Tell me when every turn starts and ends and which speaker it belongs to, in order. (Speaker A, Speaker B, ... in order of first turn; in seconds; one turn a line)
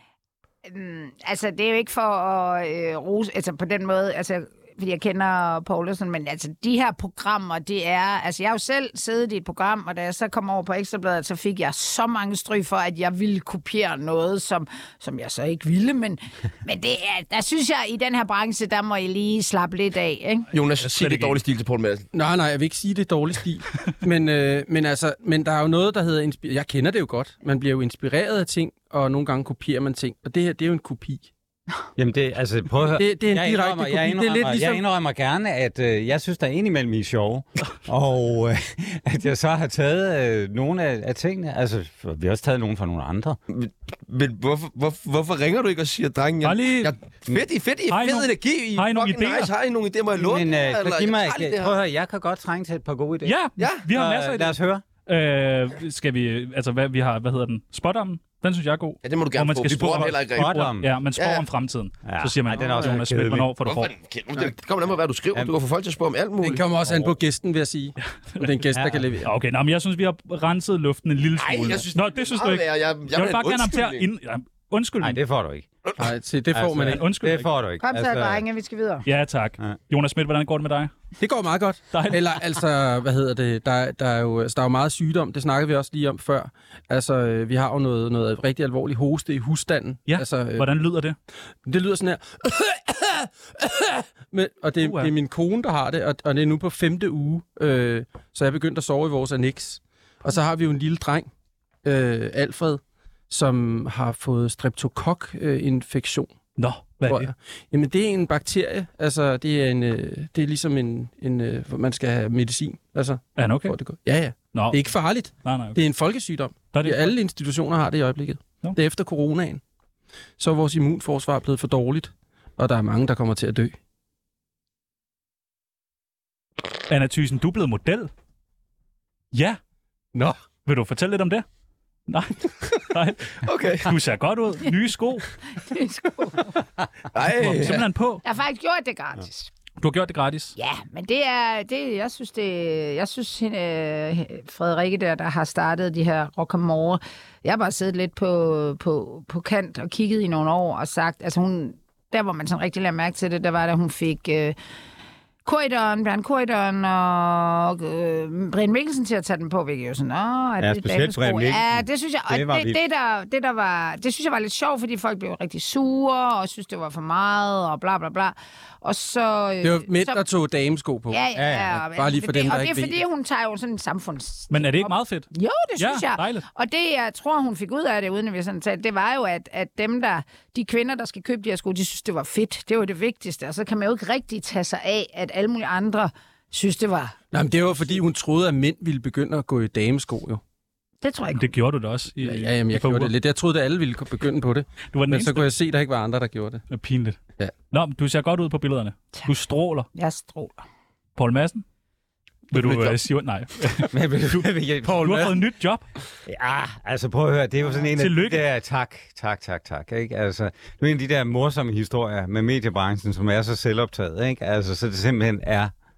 Speaker A: 0.7-20.5
Speaker B: 20.5-22.1
Speaker C: 20.8-21.4
Speaker D: 22.1-31.3
Speaker E: 32.0-43.4
Speaker D: 32.9-34.8
Speaker B: 43.5-51.7
Speaker C: 46.4-46.9
Speaker C: 47.9-49.5
Speaker E: 50.1-54.8
Speaker C: 53.2-63.9
Speaker B: 53.6-53.8
Speaker B: 59.0-60.6
Speaker E: 59.7-60.9
Speaker B: 61.1-61.4
Speaker E: 62.0-63.5
Speaker B: 63.6-67.1
Speaker D: 66.4-69.3
Speaker E: 68.7-69.0
Speaker C: 69.2-75.2
Speaker B: 71.4-74.1
Speaker E: 75.0-75.7
Speaker D: 76.0-77.0
Speaker E: 76.5-78.4
Speaker C: 76.8-77.5
Speaker A: 77.8-79.0
Speaker C: 79.0-80.9
Speaker D: 81.2-90.7
Speaker C: 81.9-82.2
Speaker C: 90.1-91.2
Speaker D: 91.6-101.3
Speaker C: 94.8-95.1
Speaker D: 101.8-106.3
Speaker C: 106.6-107.3
Speaker D: 107.0-119.6
Speaker C: 113.4-113.8
Speaker C: 114.5-115.8
Speaker C: 116.7-117.1
Speaker D: 120.4-123.7
Speaker C: 126.9-128.1
Speaker C: 129.3-129.6
Speaker C: 130.6-131.4
Speaker C: 132.1-135.3
Speaker B: 133.4-133.9
Speaker A: 135.5-136.5
Speaker B: 137.1-137.9
Speaker C: 137.3-138.2
Speaker A: 138.2-139.5
Speaker C: 139.8-140.5
Speaker A: 140.6-154.6
Speaker A: 155.4-170.2
Speaker E: 160.6-162.8
Speaker D: 169.6-171.2
Speaker A: 171.1-187.2
Speaker E: 171.3-171.8
Speaker D: 171.8-173.0
Speaker C: 174.5-176.4
Speaker D: 187.3-190.4
Speaker A: 191.0-191.5
Speaker C: 191.3-193.1
Speaker D: 192.2-196.6
Speaker C: 194.9-195.5
Speaker C: 196.7-197.2
Speaker C: 197.7-199.9
Speaker A: 199.9-200.6
Speaker C: 201.2-201.6
Speaker C: 202.5-203.9
Speaker D: 202.5-202.9
Speaker E: 203.9-205.4
Speaker C: 204.8-205.8
Speaker E: 206.2-215.7
Speaker C: 207.9-208.4